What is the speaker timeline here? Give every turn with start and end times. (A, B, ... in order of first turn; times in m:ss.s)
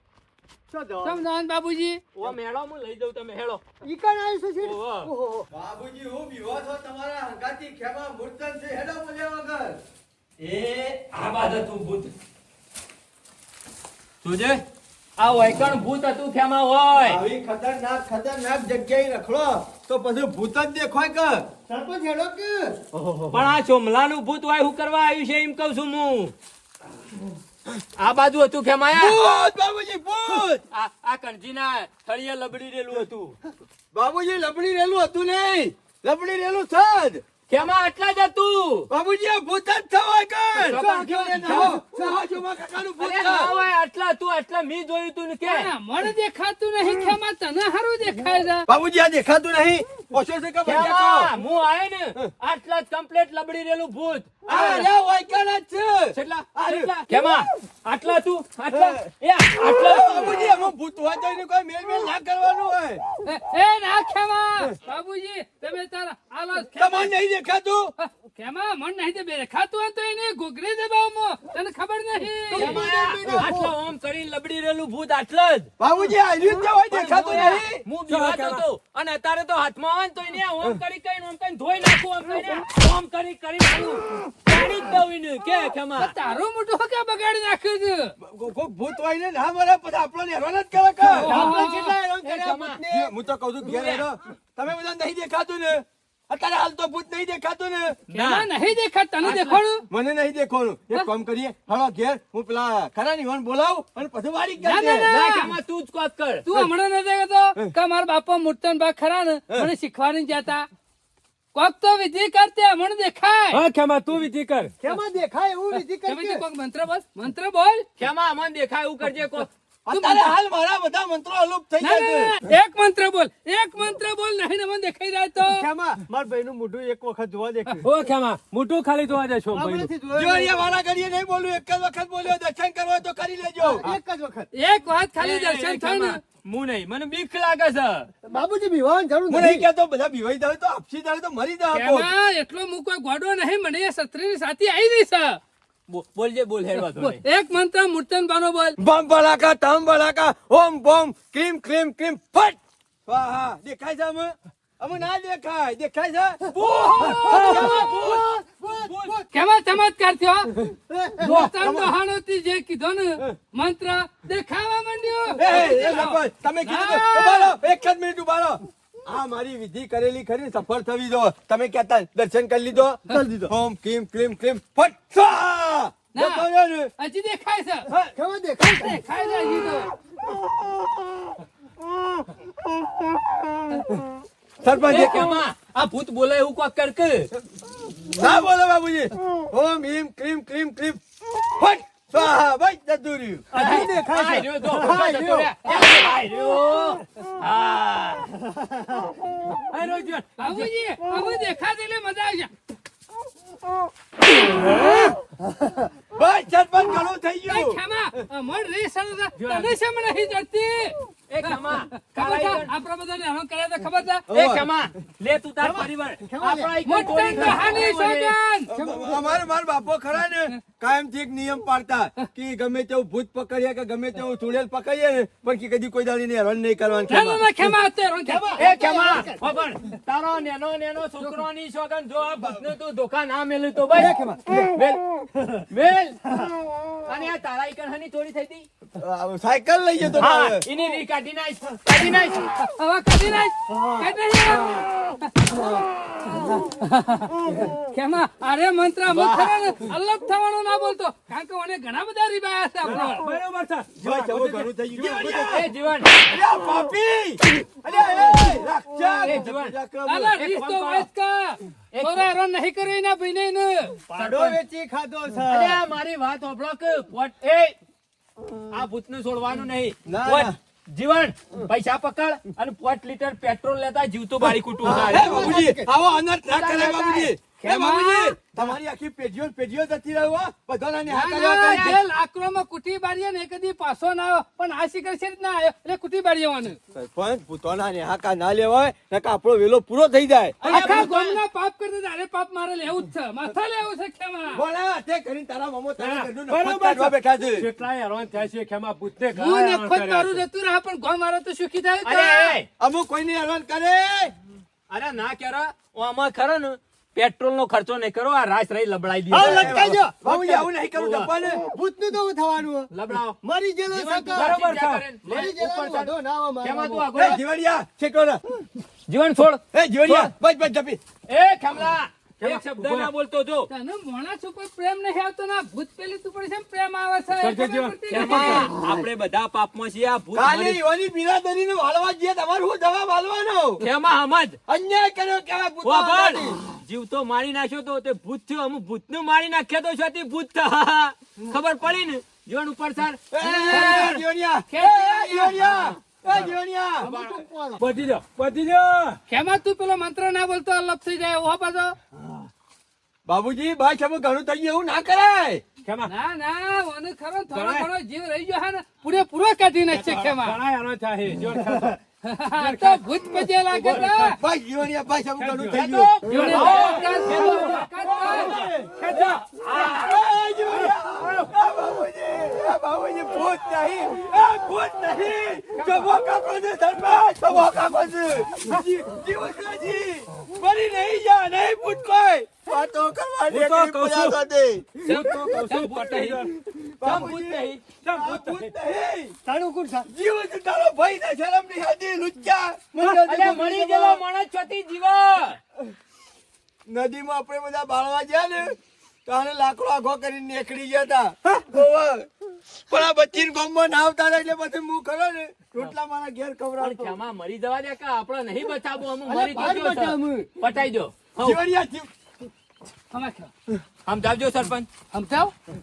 0:00.7-0:01.2 A
0:01.0-0:02.0 B
0:02.2-0:03.6 C
0:03.8-0:05.5 A
0:04.6-0:05.1 C
0:05.5-0:09.8 D
0:10.4-0:12.1 C
0:14.2-0:14.6 C
0:15.2-0:17.2 C
0:17.0-0:21.5 D
0:21.7-0:22.8 A
0:22.9-0:23.4 D
0:23.3-0:26.3 C
0:28.0-0:29.2 C
0:28.9-0:30.6 D
0:30.3-0:33.4 C
0:33.9-0:37.2 D
0:37.5-0:38.9 C
0:38.9-0:43.5 D
0:40.5-0:41.8 C
0:41.4-0:42.2 A
0:43.0-0:45.7 C
0:45.4-0:48.7 B
0:48.7-0:51.4 D
0:50.6-0:54.9 C
0:54.5-0:57.4 D
0:54.5-0:54.8 B
0:56.1-1:00.4 C
0:58.7-0:59.0 D
0:59.6-1:03.0 D
1:03.2-1:07.1 B
1:06.8-1:07.9 D
1:08.0-1:13.1 B
1:12.5-1:15.7 C
1:12.6-1:13.5 D
1:13.3-1:13.7 A
1:15.8-1:17.8 D
1:16.9-1:26.2 C
1:17.1-1:17.6 B
1:18.1-1:18.6 E
1:26.0-1:28.1 B
1:28.2-1:31.6 D
1:31.2-1:32.0 B
1:31.2-1:33.0 C
1:31.2-1:33.0 A
1:32.8-1:38.0 D
1:33.7-1:34.0 C
1:38.1-1:38.5 C
1:38.1-1:39.9 B
1:39.2-1:39.6 C
1:39.9-1:45.1 D
1:44.6-1:45.5 B
1:45.1-1:46.5 C
1:46.5-1:50.7 B
1:51.6-1:53.6 B
1:53.5-1:54.7 E
1:54.8-1:56.4 A
1:55.7-1:57.9 B
1:58.0-1:59.5 C
1:59.9-2:02.4 D
1:59.9-2:00.3 B
2:01.8-2:05.6 B
2:05.4-2:07.9 A
2:07.8-2:09.9 E
2:09.5-2:10.6 A
2:10.2-2:14.0 D
2:13.6-2:14.5 A
2:14.5-2:16.2 B
2:15.2-2:18.1 C
2:18.3-2:19.7 A
2:19.3-2:22.1 D
2:21.7-2:25.4 B
2:25.9-2:27.2 C
2:27.0-2:28.8 B
2:28.8-2:36.4 D
2:36.5-2:37.9 B
2:37.0-2:38.3 D
2:37.1-2:39.3 A
2:38.9-2:39.1 E
2:39.3-2:40.6 B
2:40.9-2:41.4 A
2:41.2-2:47.5 B
2:41.2-2:41.9 D
2:45.4-2:56.9 D
2:53.1-2:53.5 A
2:56.1-2:56.5 B
2:57.0-2:57.9 B
2:58.1-2:59.0 A
2:58.6-2:59.9 B
3:04.6-3:05.4 D
3:04.8-3:07.3 C
3:08.0-3:13.5 D
3:13.5-3:15.5 A
3:13.5-3:18.4 C
3:19.7-3:20.7 E
3:20.4-3:22.5 B
3:26.1-3:27.8 D
3:27.5-3:34.3 B
3:29.4-3:29.7 E
3:31.3-3:32.7 C
3:34.3-3:34.7 D
3:34.3-3:38.3 C
3:35.6-3:36.8 A
3:36.8-3:38.7 B
3:38.7-3:47.7 D
3:38.7-3:39.4 A
3:47.1-3:48.6 B
3:48.3-3:49.4 A
3:48.6-3:54.1 C
3:54.0-3:54.6 D
3:54.0-3:54.7 A
3:54.7-3:56.2 C
3:57.0-3:58.7 C
3:59.0-4:00.7 D
4:00.2-4:02.5 C
4:02.6-4:05.7 B
4:03.7-4:04.0 A
4:06.5-4:13.3 B
4:09.1-4:09.7 C
4:12.8-4:15.5 E
4:14.0-4:15.7 D
4:15.2-4:16.3 C
4:16.2-4:20.4 D
4:17.9-4:18.5 A
4:19.1-4:19.4 A
4:19.2-4:19.8 C
4:20.1-4:24.0 B
4:20.4-4:21.1 C
4:21.9-4:22.3 C
4:24.1-4:25.8 A
4:24.1-4:24.6 C
4:25.5-4:27.8 C
4:28.7-4:35.7 C
4:30.1-4:30.6 D
4:34.8-4:42.0 D
4:34.8-4:35.9 A
4:36.6-4:38.4 B
4:36.6-4:37.3 C
4:41.1-4:46.8 B
4:46.9-4:51.3 D
4:50.6-4:54.6 B
4:50.7-4:51.2 C
4:54.5-4:57.7 D
4:56.0-5:00.4 E
4:59.4-5:02.6 B
5:02.0-5:02.7 C
5:02.8-5:04.3 D
5:04.9-5:09.8 C
5:09.3-5:10.7 A
5:09.3-5:11.6 D
5:11.0-5:11.3 C
5:11.4-5:12.9 A
5:12.9-5:13.4 C
5:13.4-5:14.5 A
5:13.9-5:17.4 C
5:14.3-5:15.1 E
5:15.2-5:17.4 A
5:17.1-5:18.4 D
5:19.1-5:20.3 C
5:19.7-5:21.0 D
5:21.3-5:23.7 C
5:22.4-5:23.1 E
5:23.7-5:28.7 B
5:27.4-5:28.6 E
5:28.1-5:30.8 C
5:30.4-5:33.9 D
5:33.8-5:34.6 C
5:34.7-5:36.6 D
5:35.8-5:44.2 C
5:43.3-5:47.1 D
5:43.4-5:44.2 B
5:44.7-5:45.6 B
5:47.0-5:47.9 A
5:47.0-5:47.4 C
5:47.8-5:49.2 E
5:49.3-5:52.0 B
5:53.2-5:55.6 D
5:55.8-5:56.1 E
5:56.1-6:00.6 B
5:57.5-5:57.9 E
6:00.0-6:02.0 E
6:02.2-6:04.4 B
6:02.6-6:04.4 E
6:04.4-6:06.1 D
6:05.4-6:10.0 E
6:05.7-6:07.6 C
6:06.3-6:08.6 B
6:08.2-6:08.9 A
6:08.5-6:08.9 D
6:09.6-6:25.3 D
6:10.8-6:11.5 E
6:15.8-6:16.1 C
6:23.5-6:24.4 E
6:25.0-6:26.5 E
6:25.0-6:26.5 C
6:26.7-6:29.4 D
6:27.0-6:27.8 C
6:27.9-6:28.7 E
6:29.4-6:30.1 A
6:30.1-6:34.2 D
6:33.0-6:35.6 C
6:36.9-6:47.2 D
6:46.8-6:51.6 C
6:49.2-6:50.5 A
6:51.4-6:52.1 D
6:53.1-6:53.5 B
6:54.1-6:54.9 C
6:55.1-6:55.5 B